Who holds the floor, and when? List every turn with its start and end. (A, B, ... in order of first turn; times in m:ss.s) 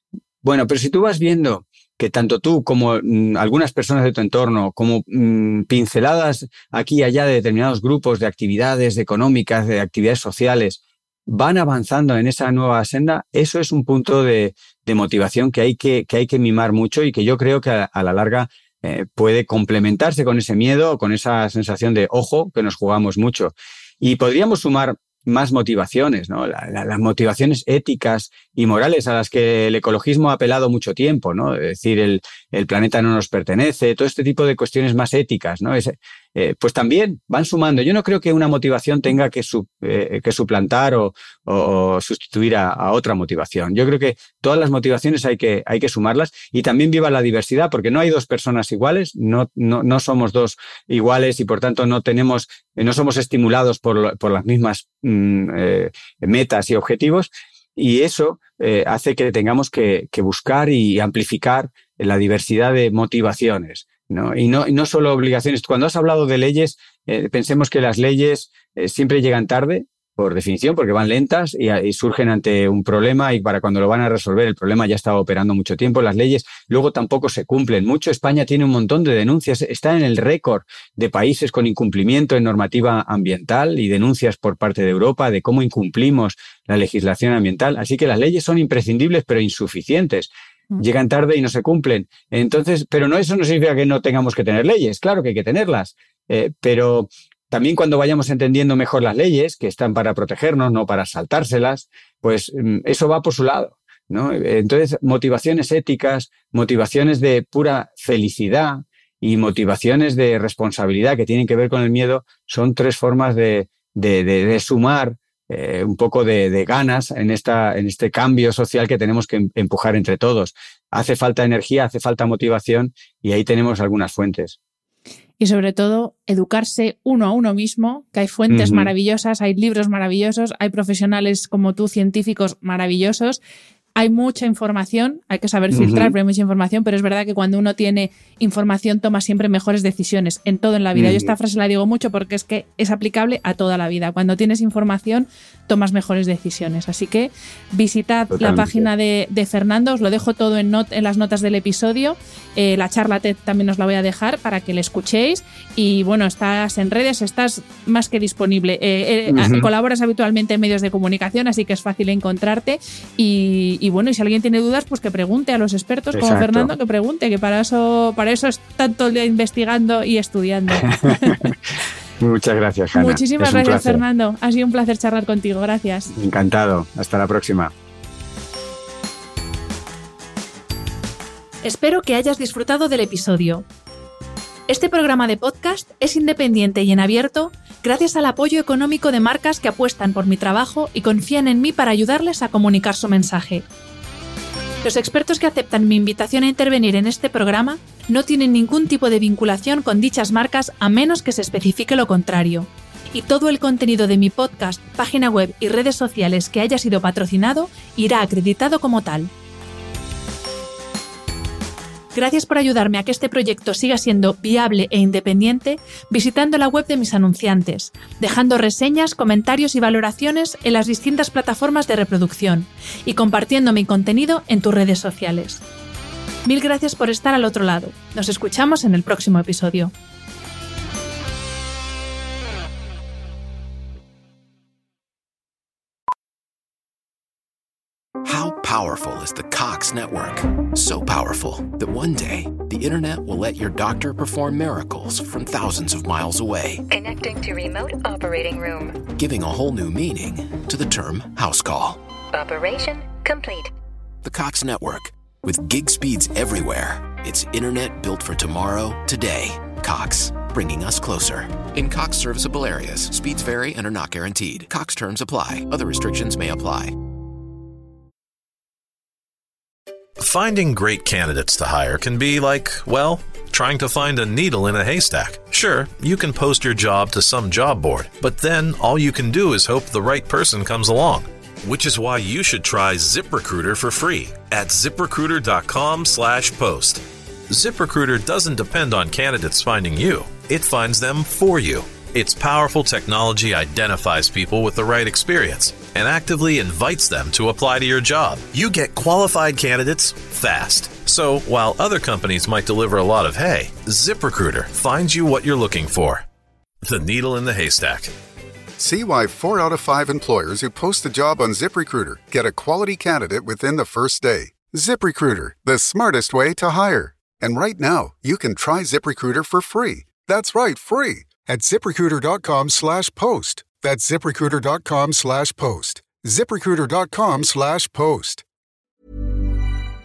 0:00.4-2:04.6 A
2:05.4-2:13.4 B
2:08.5-2:08.9 A
2:14.0-2:51.5 B
2:15.7-2:16.2 A
2:21.0-2:21.3 A
2:28.3-2:28.9 A
2:39.3-2:39.7 A
2:46.1-2:46.7 A
2:50.7-2:51.6 A
2:52.2-2:54.0 A
2:52.9-2:56.1 B
2:56.1-2:57.7 A
3:01.6-3:03.6 B
3:04.7-3:13.6 B
3:14.8-3:29.3 B
3:32.1-3:45.6 B
3:46.5-3:49.9 B
3:58.2-4:06.8 C
4:06.9-4:09.0 D
4:09.0-4:12.0 C
4:12.3-4:13.7 D
4:14.2-4:27.0 C
4:30.2-5:06.2 E
5:06.8-5:08.1 E
5:08.8-5:28.4 F